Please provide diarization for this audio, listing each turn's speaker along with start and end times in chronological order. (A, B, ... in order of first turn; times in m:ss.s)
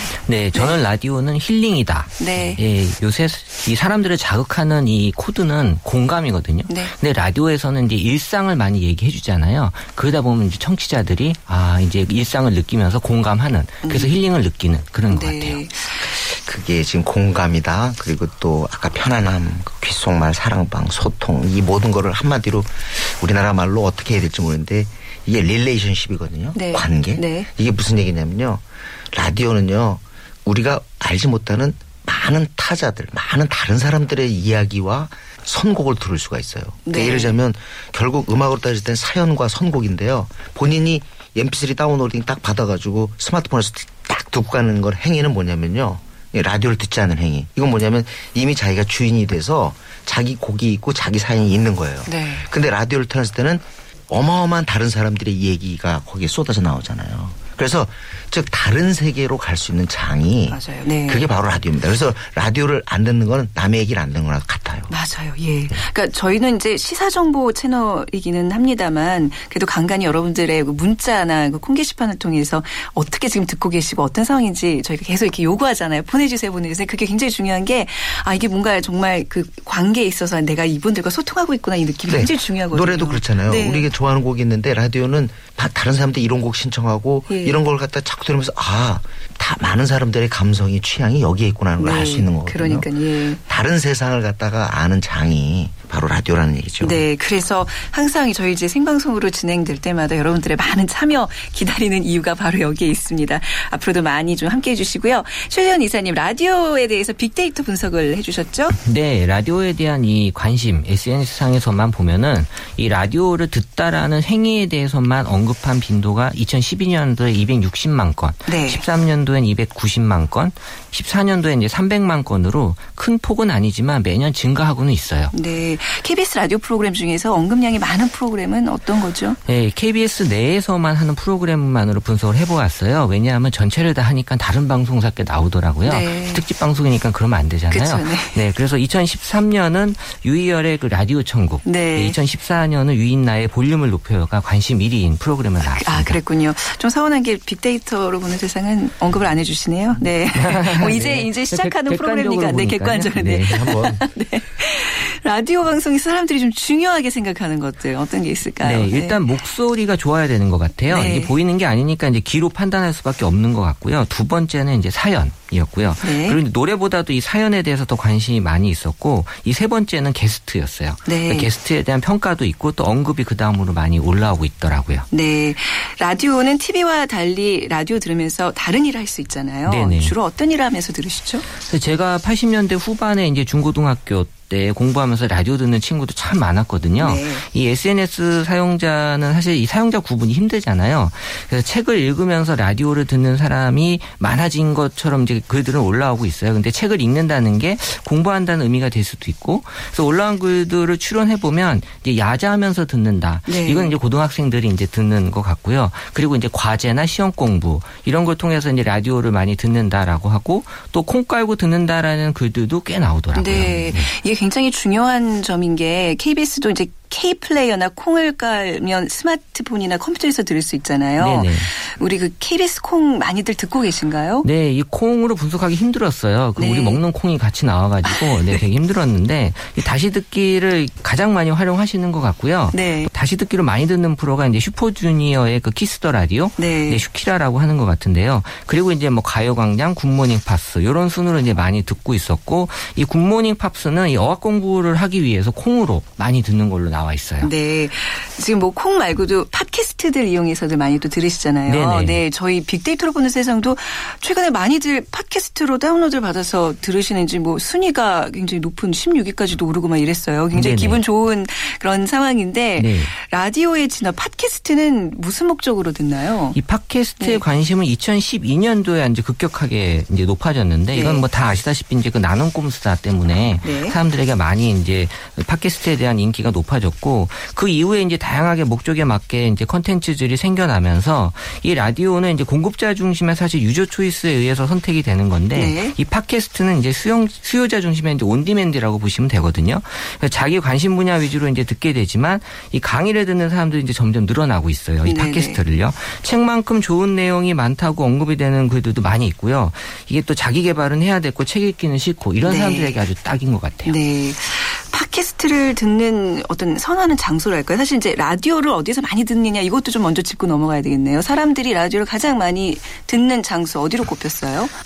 0:00.3-0:15.6 A
0:02.2-0:02.6 B
0:06.7-0:06.9 B
0:13.8-0:14.1 B
0:15.1-0:16.2 B
0:16.0-1:04.9 C
0:26.5-0:27.5 B
0:36.9-0:37.4 B
0:52.0-0:52.5 B
1:00.5-1:01.3 B
1:04.9-1:23.9 B
1:22.1-1:32.9 C
1:27.3-1:27.6 B
1:31.8-1:33.4 B
1:33.5-1:37.0 C
1:36.8-1:48.7 B
1:48.7-2:05.3 A
1:58.5-1:58.8 B
2:05.3-2:09.4 B
2:09.5-2:26.2 A
2:15.8-2:16.4 B
2:17.7-2:18.4 B
2:21.6-2:22.2 B
2:25.7-2:39.4 B
2:30.3-2:34.0 A
2:38.6-2:55.1 A
2:40.9-2:41.4 B
2:46.0-2:46.4 B
2:51.1-2:51.5 B
2:55.1-3:01.4 B
2:59.7-3:00.2 A
3:01.6-3:34.1 A
3:07.0-3:07.4 B
3:23.5-3:23.9 B
3:33.3-3:44.5 B
3:41.2-3:41.7 A
3:44.4-4:07.5 A
3:46.6-3:47.0 B
3:48.1-3:48.6 B
3:52.7-3:53.1 B
3:56.6-3:57.0 B
4:07.4-4:26.6 B
4:11.7-4:12.2 A
4:20.5-4:21.0 A
4:22.8-4:23.1 A
4:26.6-5:04.0 A
4:30.9-4:31.2 B
4:33.6-4:34.0 B
4:45.6-4:46.0 B
4:55.0-4:55.6 B
5:02.4-5:03.0 B
5:03.8-5:14.7 B